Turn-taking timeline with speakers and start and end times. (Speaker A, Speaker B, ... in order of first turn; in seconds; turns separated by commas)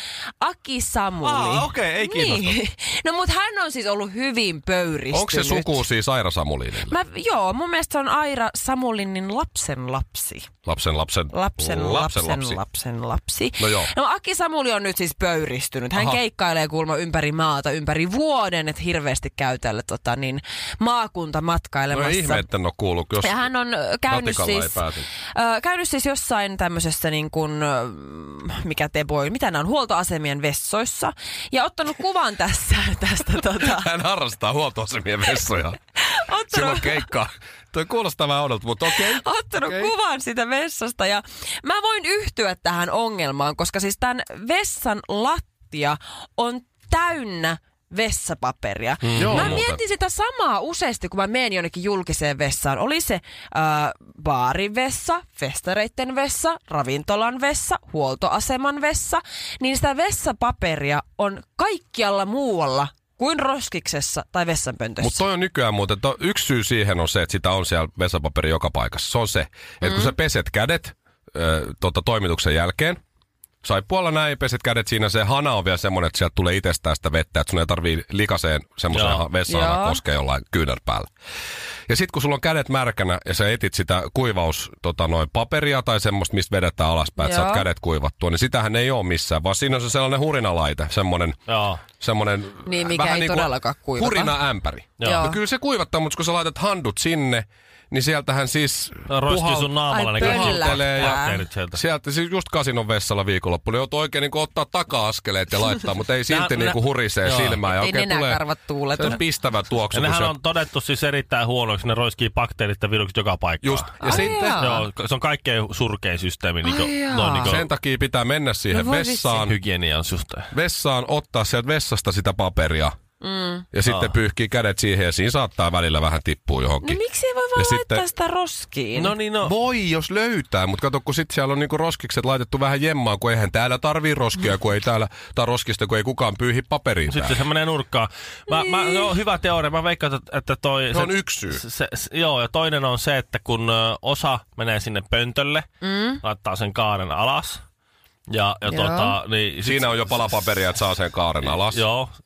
Speaker A: 0.4-5.8, Speaker B: 1.2-2.6, Speaker C: 5.1-7.0, Speaker A: 6.8-10.5, Speaker C: 10.6-12.6, Speaker A: 11.3-22.4, Speaker C: 13.6-13.9, Speaker C: 21.9-23.5, Speaker A: 23.2-33.9, Speaker C: 24.1-25.1, Speaker C: 33.6-35.8, Speaker A: 36.0-37.1, Speaker C: 36.5-39.9, Speaker A: 38.9-65.2, Speaker B: 49.0-49.6, Speaker C: 49.1-49.8, Speaker C: 65.0-73.0, Speaker A: 69.8-70.1, Speaker C: 73.6-81.1, Speaker B: 78.9-79.2, Speaker A: 79.5-80.0, Speaker C: 81.9-91.4, Speaker A: 87.2-87.7, Speaker B: 91.5-91.8, Speaker C: 92.0-108.4, Speaker A: 92.7-94.3, Speaker B: 95.0-95.3, Speaker A: 95.0-95.4, Speaker B: 99.1-101.8, Speaker A: 99.9-101.4, Speaker B: 106.3-107.6, Speaker A: 107.7-109.2, Speaker C: 109.0-110.3, Speaker B: 109.9-117.6, Speaker C: 113.6-114.8, Speaker A: 114.0-114.8, Speaker A: 116.6-117.6, Speaker C: 117.4-119.6, Speaker A: 118.7-119.4, Speaker B: 119.4-120.5, Speaker C: 120.5-123.0, Speaker A: 123.2-123.7, Speaker C: 123.7-127.0, Speaker B: 123.8-124.1, Speaker A: 126.8-129.1, Speaker C: 127.5-128.0, Speaker B: 128.9-129.5, Speaker C: 129.4-137.4, Speaker B: 137.1-145.7, Speaker A: 138.5-139.1, Speaker C: 140.9-141.6, Speaker A: 145.8-146.2, Speaker B: 146.2-147.6, Speaker B: 148.3-150.4, Speaker A: 148.7-149.1, Speaker C: 149.6-151.8, Speaker B: 151.4-152.1